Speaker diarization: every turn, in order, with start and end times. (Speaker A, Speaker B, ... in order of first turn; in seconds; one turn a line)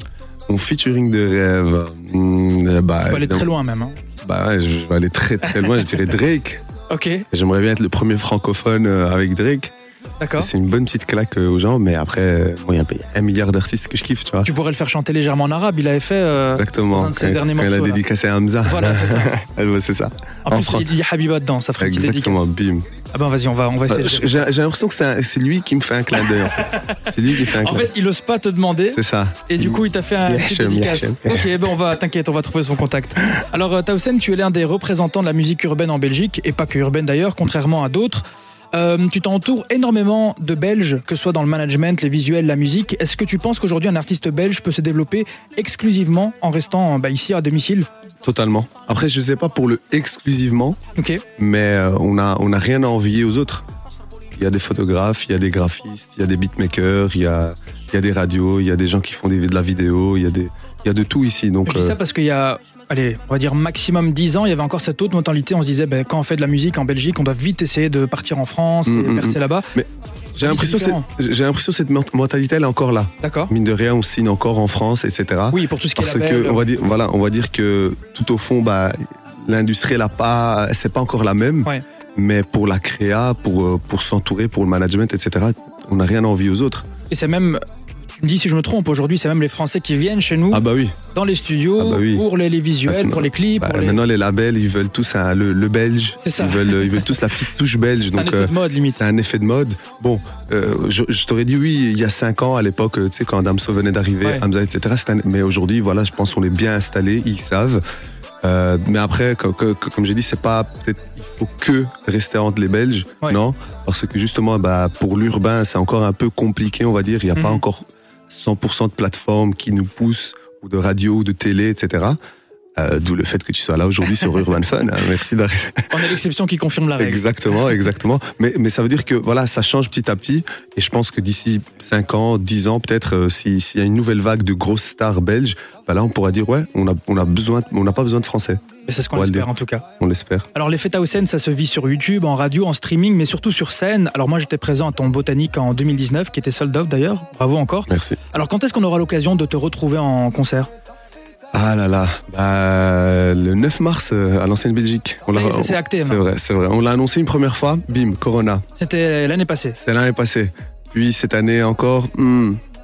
Speaker A: 0.5-3.5
Speaker B: 3.0-4.0
Speaker A: 4.2-6.6
Speaker B: 5.6-6.0
Speaker B: 6.9-7.2
Speaker A: 7.3-9.7
Speaker B: 10.2-10.5
Speaker A: 10.3-14.5
Speaker B: 14.4-18.0
Speaker A: 16.5-20.9
Speaker B: 18.6-19.3
Speaker B: 20.4-22.5
Speaker A: 21.8-22.9
Speaker B: 23.1-24.5
Speaker A: 23.9-27.9
Speaker B: 26.2-38.2
Speaker A: 28.9-31.5
Speaker B: 38.7-47.9
Speaker A: 48.2-50.8
Speaker B: 51.0-51.2
Speaker A: 51.4-53.6
Speaker A: 54.4-62.0
Speaker B: 61.6-69.7
Speaker A: 68.8-86.8
Speaker B: 70.4-71.0
Speaker B: 73.2-73.5
Speaker B: 75.5-76.7
Speaker B: 87.1-87.6
Speaker B: 88.2-94.0
Speaker A: 90.5-91.0
Speaker A: 91.8-92.2
Speaker A: 92.9-107.8
Speaker B: 96.2-97.1
Speaker B: 98.1-99.0
Speaker A: 108.4-122.2
Speaker B: 117.3-117.6
Speaker A: 122.8-125.9
Speaker B: 125.9-127.2
Speaker A: 127.0-138.6
Speaker B: 138.9-139.8
Speaker A: 139.1-140.5
Speaker B: 140.5-150.7
Speaker A: 147.9-148.2
Speaker A: 151.5-158.6
Speaker B: 155.3-156.2
Speaker B: 158.8-159.8
Speaker A: 159.8-162.6